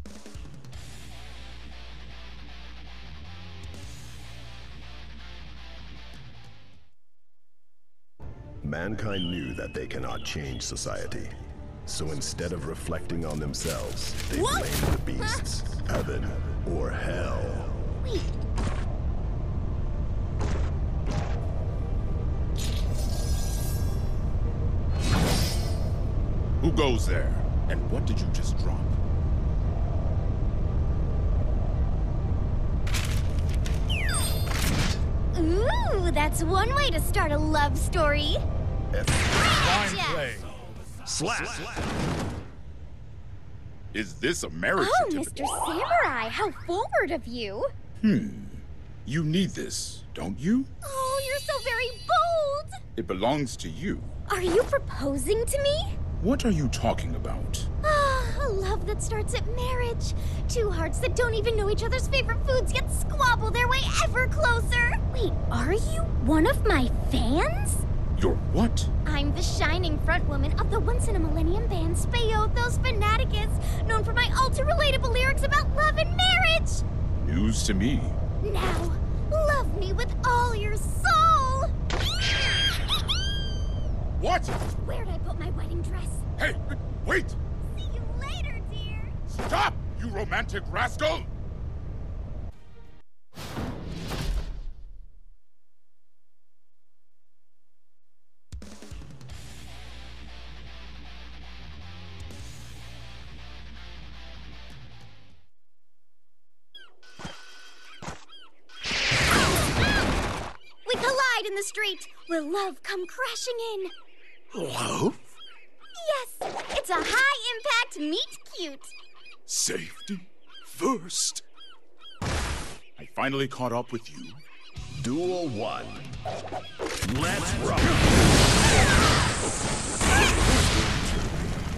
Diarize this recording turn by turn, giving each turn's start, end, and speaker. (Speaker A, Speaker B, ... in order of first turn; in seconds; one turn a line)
Speaker A: 8.6-11.3
Speaker A: 11.9-17.9
Speaker B: 14.3-15.4
Speaker B: 18.0-18.3
Speaker C: 26.6-29.0
Speaker B: 35.3-38.4
Speaker A: 38.9-39.5
Speaker B: 39.3-40.4
Speaker C: 39.5-40.5
Speaker A: 41.1-41.8
Speaker D: 41.3-41.7
Speaker C: 43.9-45.6
Speaker B: 44.8-47.7
Speaker C: 48.0-50.7
Speaker B: 50.8-52.7
Speaker C: 52.9-54.1
Speaker B: 54.3-56.0
Speaker C: 56.2-57.7
Speaker B: 57.8-67.8
Speaker C: 68.2-68.9
Speaker B: 69.0-76.8
Speaker C: 77.2-78.2
Speaker B: 78.4-81.7
Speaker C: 84.2-84.6
Speaker B: 84.8-86.2
Speaker C: 86.4-87.4
Speaker B: 87.6-89.1
Speaker C: 89.3-91.3
Speaker B: 110.8-113.9
Speaker D: 114.5-115.2
Speaker B: 116.0-118.9
Speaker D: 119.5-121.4
Speaker C: 119.5-119.8
Speaker C: 123.0-124.4
Speaker A: 125.0-126.1
Speaker A: 127.0-128.1
Speaker D: 127.3-128.0
Speaker D: 130.7-131.3